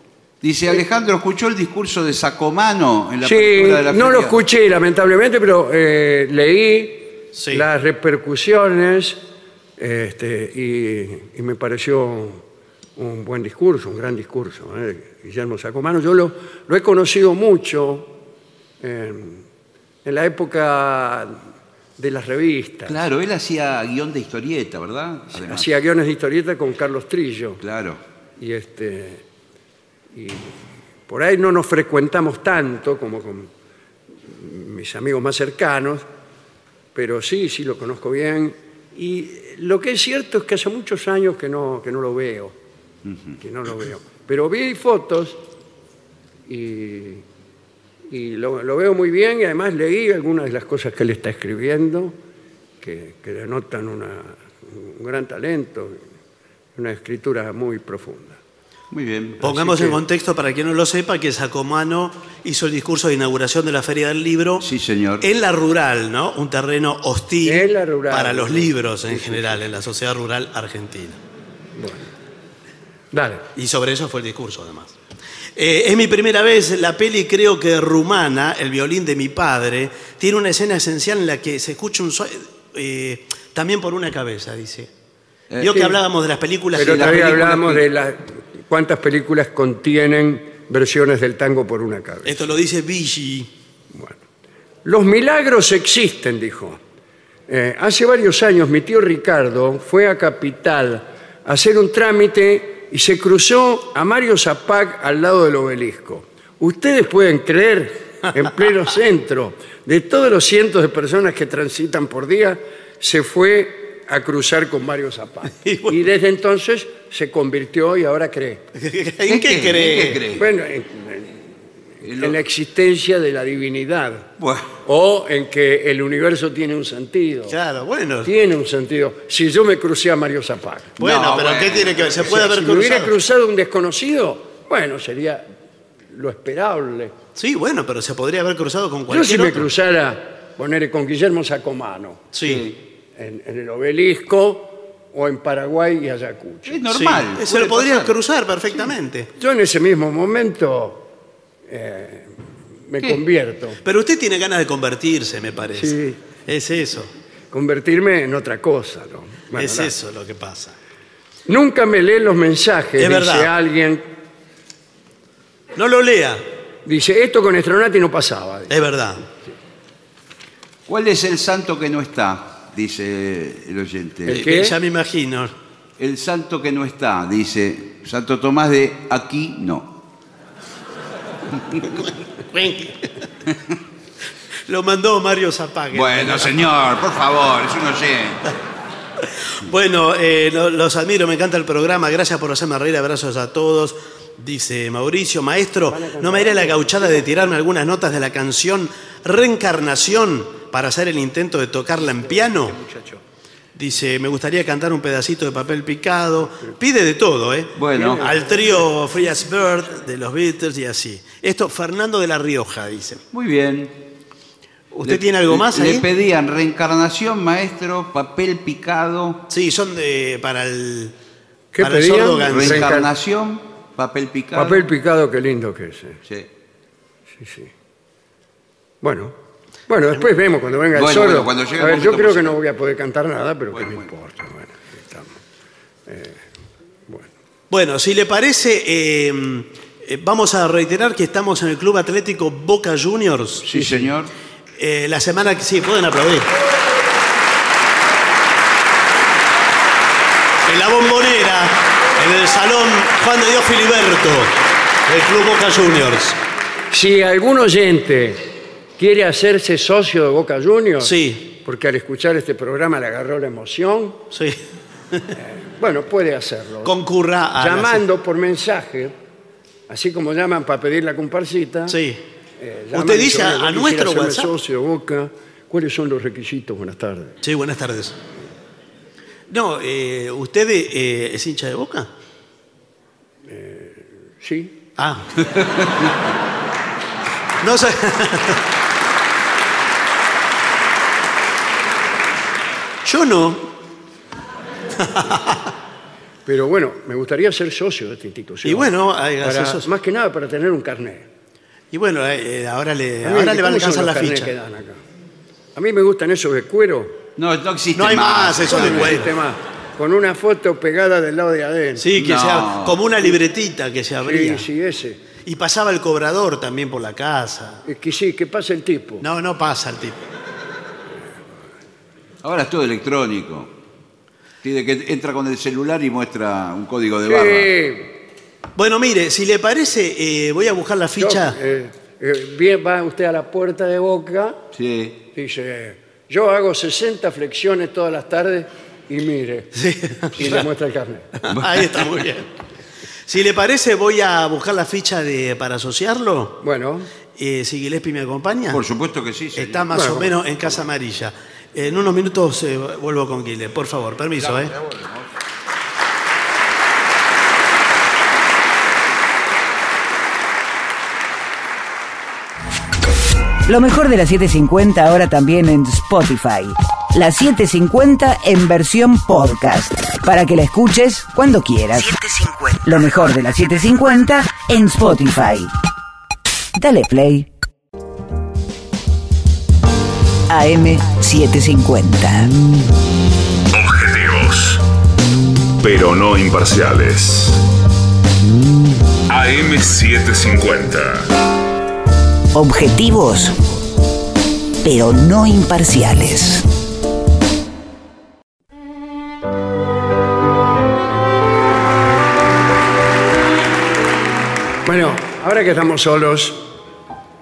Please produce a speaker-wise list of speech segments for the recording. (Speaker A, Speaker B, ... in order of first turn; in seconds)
Speaker A: 0.4-4.4, 22.9-25.7, 27.6-28.0, 58.9-59.4, 64.6-65.2, 85.5-85.8, 86.8-87.8, 119.3-120.5, 122.0-122.4, 124.4-124.7, 131.0-132.3, 142.4-142.7, 146.7-148.1, 170.9-174.4, 176.0-179.9, 185.9-188.4, 207.8-208.2, 213.3-213.9, 215.0-219.4, 222.5-224.8, 230.9-232.6, 233.7-234.1, 243.6-244.3, 307.4-309.3, 312.1-313.0, 322.4-323.7, 324.6-327.7, 334.7-335.2, 348.7-349.9, 354.5-355.2
Speaker B: 3.2-9.2, 9.8-12.4, 13.0-18.1, 18.8-19.4, 20.0-21.4, 22.0-23.0, 25.3-27.6, 28.4-29.2, 30.1-30.6, 31.1-33.5, 34.2-36.0, 36.9-42.5, 43.4-45.4, 46.5-47.2, 48.1-52.1, 52.8-56.0, 56.8-58.4, 59.4-60.0, 67.4-69.6, 71.8-72.1, 73.1-73.4, 86.8-92.5, 93.9-94.2, 94.8-96.8, 97.5-118.6, 120.3-121.4, 122.2-124.3, 124.8-127.5, 128.2-130.9, 132.2-135.4, 136.1-137.1, 139.1-142.2, 143.1-146.8, 149.3-151.1, 151.7-152.3, 152.9-153.8, 155.7-156.2, 157.5-159.9, 161.5-164.0, 166.8-168.7, 174.3-174.7, 195.9-197.4, 207.9-208.5, 221.7-223.1, 224.5-226.2, 227.4-227.7, 229.0-229.3, 229.9-235.3, 236.1-236.4, 256.9-258.4, 259.0-264.2, 265.3-266.9, 267.6-269.1, 269.9-272.0, 272.6-277.4, 283.4-284.8, 296.4-301.3, 303.2-305.0, 305.7-307.2, 308.7-312.1, 314.2-315.2, 317.9-319.2, 327.2-328.1, 331.2-334.6, 335.3-339.7, 340.3-341.3, 346.6-347.1, 349.9-350.3, 404.8-406.6
Speaker C: 7.3-7.7, 59.4-64.7, 65.2-71.2, 73.5-75.0, 75.5-84.9, 85.6-87.6, 92.2-93.5, 115.6-116.1, 118.7-120.2, 127.5-128.3, 131.0-133.2, 137.3-139.7, 142.3-142.7, 146.9-149.3, 153.8-157.1, 159.5-160.8, 163.0-163.5, 165.7-166.4, 168.7-169.2, 174.3-175.5, 182.5-183.1, 184.7-186.7, 189.2-202.8, 203.7-213.2, 214.9-216.1, 219.5-221.1, 221.8-222.9, 237.7-243.8, 244.8-246.5, 250.6-256.4, 261.0-261.5, 264.3-264.6, 266.8-268.0, 271.9-272.2, 272.9-274.5, 277.4-278.2, 279.5-282.1, 285.0-285.3, 287.6-288.6, 293.0-293.7, 294.9-295.7, 298.6-299.9, 301.9-304.5, 307.9-309.3, 312.0-314.7, 315.4-317.8, 319.2-320.2, 328.8-331.6, 339.7-340.7, 341.4-342.5, 343.2-346.6, 347.4-348.8, 349.5-354.7
Speaker D: 363.6-375.7, 376.8-377.5, 380.5-382.5, 392.5-393.6, 394.8-396.6
Speaker E: 383.7-384.8, 385.8-387.6, 389.3-391.3